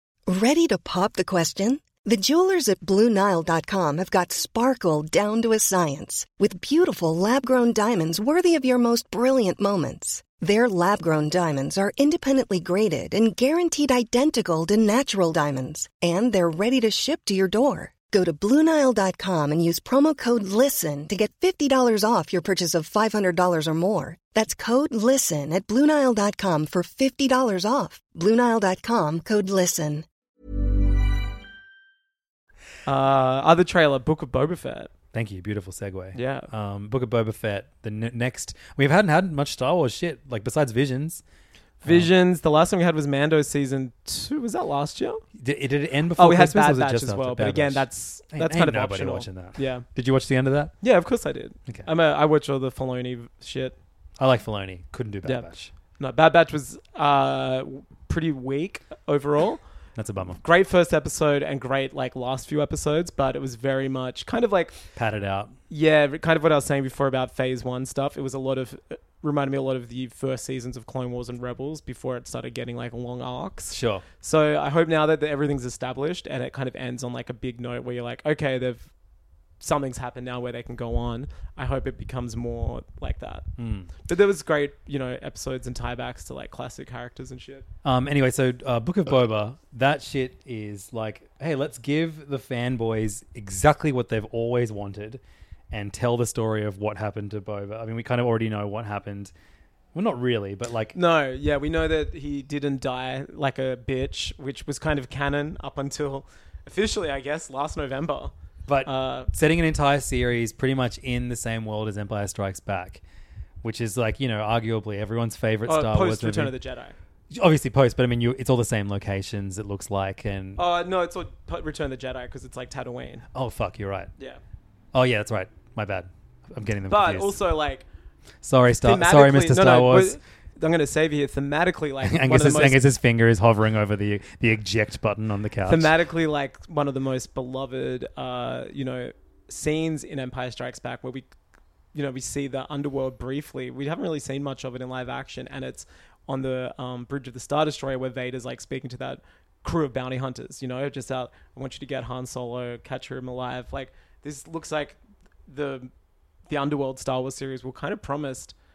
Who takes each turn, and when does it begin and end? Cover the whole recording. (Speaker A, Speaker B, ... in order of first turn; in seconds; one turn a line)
Speaker A: 0.3-30.1
Speaker B: 32.9-34.9
Speaker C: 35.1-41.2
Speaker B: 36.1-36.5
Speaker B: 41.8-45.2
Speaker C: 41.8-42.1
Speaker C: 45.4-50.7
Speaker B: 46.2-49.9
Speaker B: 50.8-53.8
Speaker C: 54.2-55.7
Speaker B: 55.2-59.6
Speaker C: 60.0-60.4
Speaker B: 60.4-64.8
Speaker C: 65.0-65.5
Speaker B: 65.7-78.9
Speaker C: 73.7-74.0
Speaker B: 79.6-83.5
Speaker C: 83.6-83.9
Speaker B: 84.0-87.7
Speaker C: 87.8-99.3
Speaker C: 99.9-101.0
Speaker B: 100.9-108.3
Speaker C: 108.7-113.0
Speaker B: 108.8-109.3
Speaker C: 113.6-116.5
Speaker B: 115.7-117.0
Speaker C: 117.3-120.6
Speaker B: 120.6-123.3
Speaker C: 123.3-124.1
Speaker C: 124.9-127.4
Speaker B: 126.9-127.8
Speaker C: 128.4-130.2
Speaker B: 128.8-132.8
Speaker C: 132.0-135.9
Speaker B: 135.7-141.3
Speaker B: 141.9-155.9
Speaker B: 156.5-158.5